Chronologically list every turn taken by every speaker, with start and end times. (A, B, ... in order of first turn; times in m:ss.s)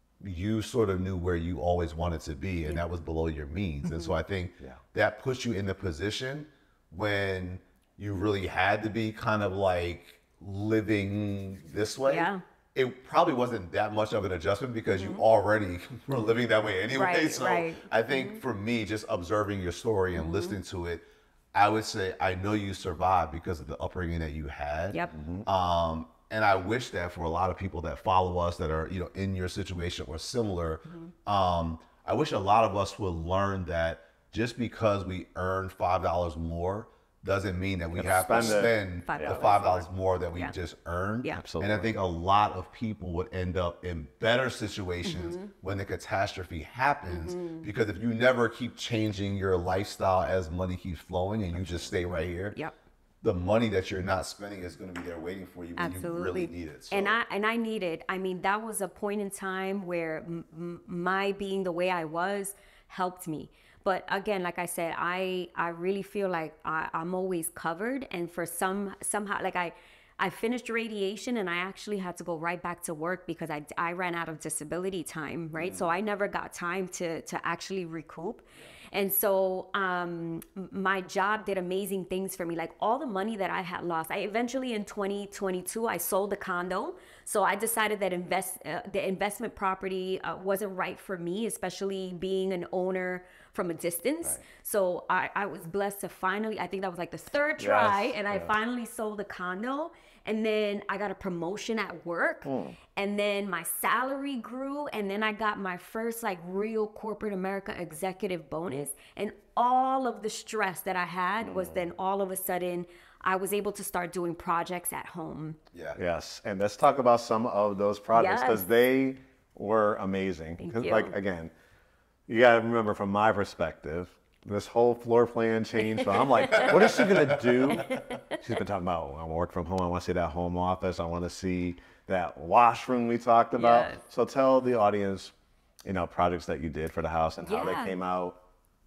0:00.2-0:52.6 A
0:03.8-0:04.2 B
0:12.1-0:12.4 B
0:14.9-0:15.2 B
0:16.9-0:18.4 B
0:20.2-0:20.6 B
0:25.1-0:25.5 C
0:37.9-0:39.4 C
0:38.3-0:40.5 B
0:41.3-0:41.9 C
0:45.0-0:45.5 B
0:47.1-0:47.7 B
0:51.5-0:51.9 C
0:53.2-0:57.2 A
0:55.8-1:55.6 B
1:15.6-1:15.9 C
1:37.6-1:38.5 C
1:42.5-1:42.8 C
1:51.4-1:51.9 C
1:55.7-1:56.0 A
1:56.0-2:01.5 C
1:58.1-1:58.6 B
2:00.6-2:01.2 B
2:02.3-2:15.3 C
2:06.0-2:06.7 B
2:06.5-2:07.6 A
2:07.7-2:08.4 B
2:13.6-2:14.0 B
2:15.8-2:18.4 C
2:17.4-2:18.0 B